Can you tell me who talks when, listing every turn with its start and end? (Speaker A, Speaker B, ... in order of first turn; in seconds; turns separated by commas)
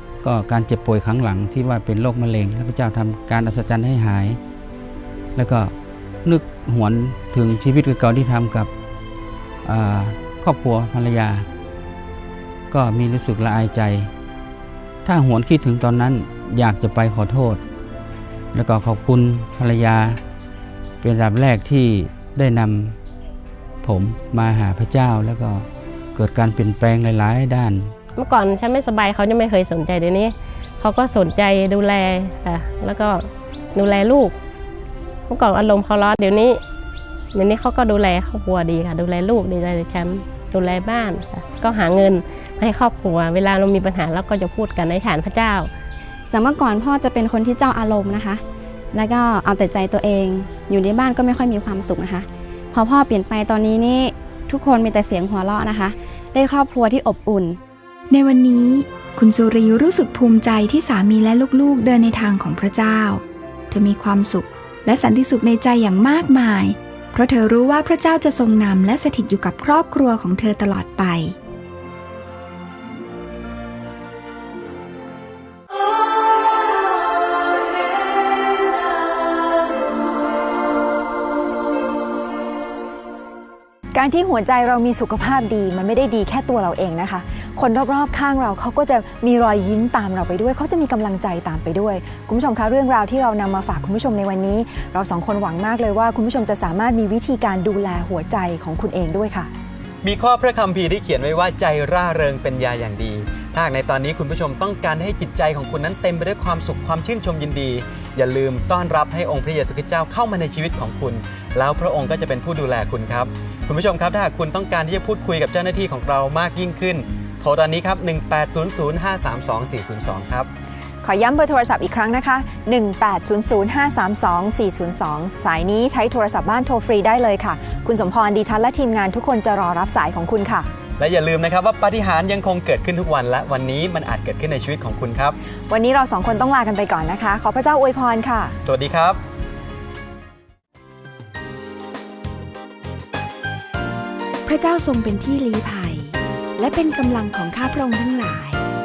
Speaker A: 0.2-4.4, Speaker A: 5.3-5.7, Speaker A: 6.2-8.7, Speaker A: 9.6-11.5, Speaker A: 12.7-14.1, Speaker A: 15.0-17.6, Speaker A: 18.5-20.2, Speaker A: 21.0-23.0, Speaker A: 23.8-27.9, Speaker B: 28.2-34.3, Speaker B: 35.3-36.6, Speaker B: 37.3-45.7, Speaker C: 46.3-48.4, Speaker C: 48.9-57.6, Speaker D: 58.1-71.4, Speaker E: 83.9-99.5, Speaker F: 100.0-120.5, Speaker E: 121.0-130.7, Speaker F: 131.0-135.4, Speaker E: 135.7-138.6, Speaker F: 138.6-139.2, Speaker D: 144.5-148.7